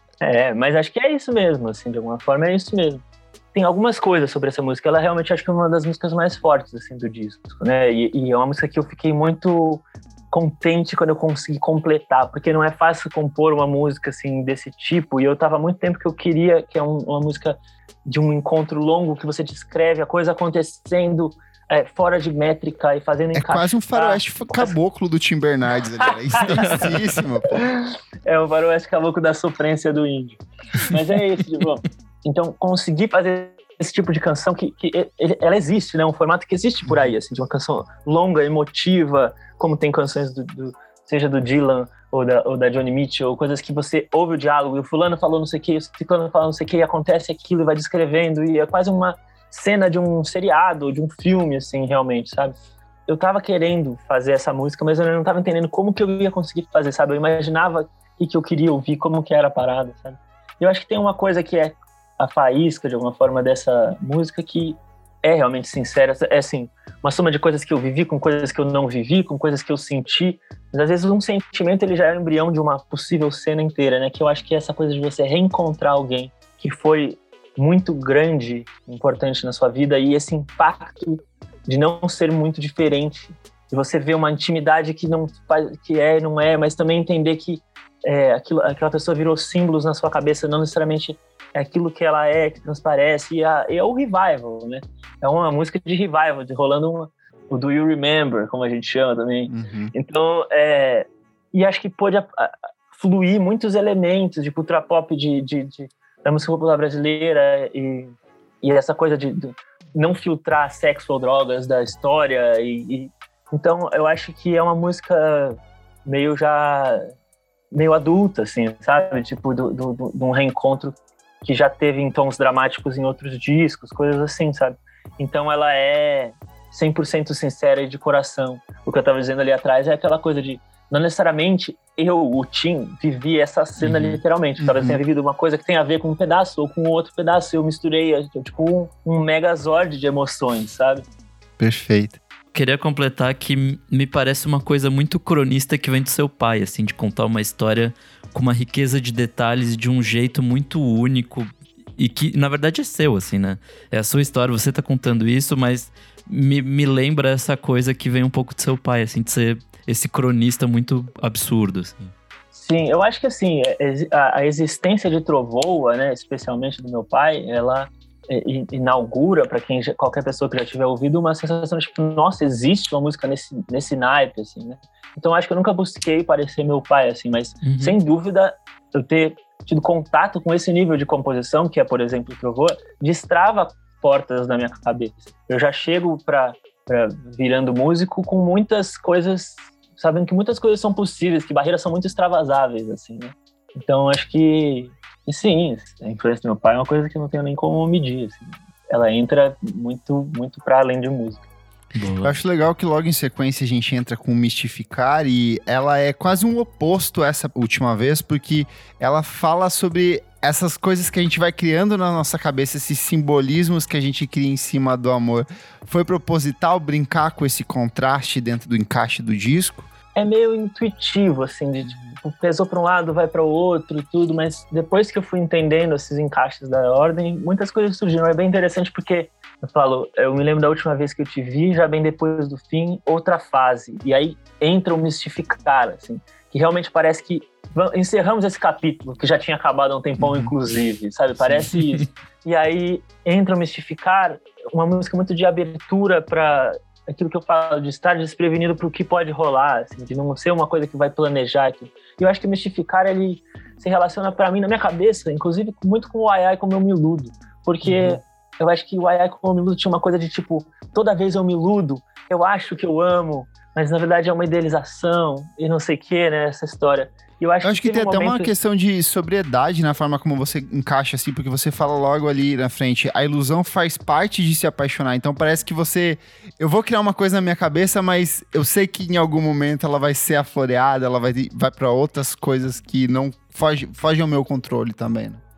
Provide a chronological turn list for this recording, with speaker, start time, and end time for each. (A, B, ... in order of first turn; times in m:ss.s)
0:00.2-0:24.7 A
0:23.3-0:27.7 B
0:26.0-0:26.9 A
0:26.5-0:27.0 C
0:27.4-1:57.1 A
1:39.5-1:39.9 B
1:57.7-2:21.0 A
2:13.8-2:14.2 C
2:14.6-2:15.0 B
2:21.6-2:22.2 B
2:22.5-2:42.1 C
2:42.5-3:21.4 A
2:57.6-2:58.0 C
3:22.0-3:22.4 C
3:22.2-3:39.9 B
3:40.2-4:28.5 A
3:41.9-3:42.2 B
4:00.2-4:00.5 B
4:17.8-4:18.2 B
4:27.6-4:45.4 B